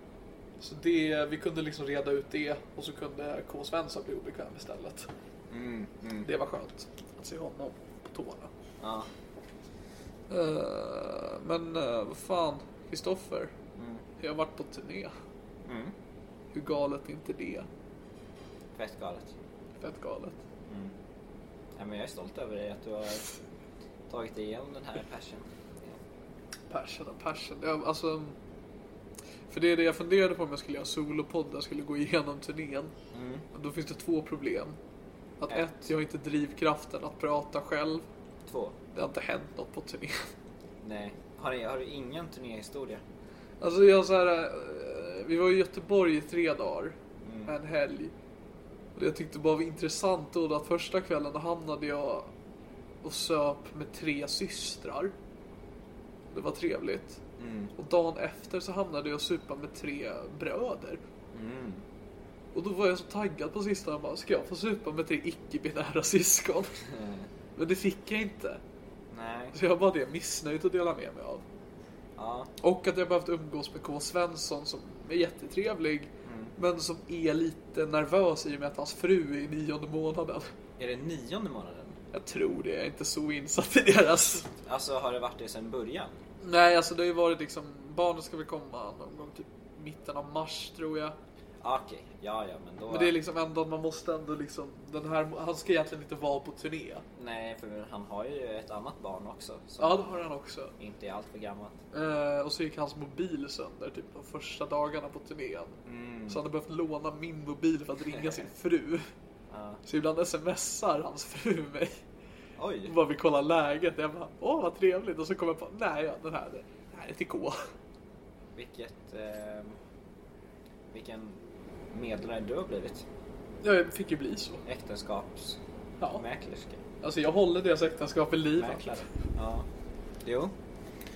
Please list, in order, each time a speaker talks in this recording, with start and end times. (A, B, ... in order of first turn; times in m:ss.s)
0:00.6-0:05.1 A
0:05.5-0:06.3 B
0:06.2-0:08.5 A
0:08.8-0:09.1 B
0:10.3-0:13.5 A
0:13.8-0:14.0 B
0:14.2-0:15.1 A
0:15.6-0:15.9 B
0:16.5-0:17.7 A
0:18.8-0:19.3 B
0:19.8-0:20.4 A
0:20.7-0:20.9 B
0:21.8-0:23.3 B
0:24.1-0:26.0 B
0:26.7-0:28.4 A
0:29.5-0:32.9 A
0:33.1-0:33.5 B
0:33.5-0:34.8 A
0:35.4-0:38.1 A
0:38.5-0:38.8 B
0:39.0-0:40.3 A
0:40.8-0:43.0 B
0:43.6-0:47.0 A
0:47.2-0:47.5 B
0:47.5-0:48.1 A
0:49.0-0:52.3 A
0:53.0-0:55.1 A
0:56.3-0:57.2 A
0:57.4-0:57.7 B
0:57.8-1:01.0 A
1:01.3-1:01.8 B
1:02.5-1:06.8 A
1:06.9-1:07.3 B
1:07.6-1:08.6 A
1:09.1-1:09.6 B
1:09.5-1:11.4 A
1:12.2-1:12.5 B
1:12.6-1:20.5 A
1:16.2-1:16.5 B
1:20.8-1:22.0 B
1:22.1-1:24.5 A
1:24.6-1:26.2 B
1:26.4-1:31.2 A
1:31.6-1:33.1 B
1:32.9-1:37.0 A
1:37.2-1:40.2 B
1:39.8-1:40.7 A
1:40.8-1:41.8 B
1:41.9-1:49.1 A
1:45.9-1:46.4 B
1:48.2-1:48.4 B
1:49.5-1:49.8 B
1:49.9-1:52.0 A
1:52.6-1:53.0 B
1:52.9-1:57.7 A
1:58.6-1:59.8 B
2:00.9-2:03.0 B
2:03.6-2:04.6 A
2:04.7-2:05.6 B
2:06.2-2:06.8 B
2:07.0-2:08.8 A
2:08.6-2:09.7 B
2:10.2-2:10.5 B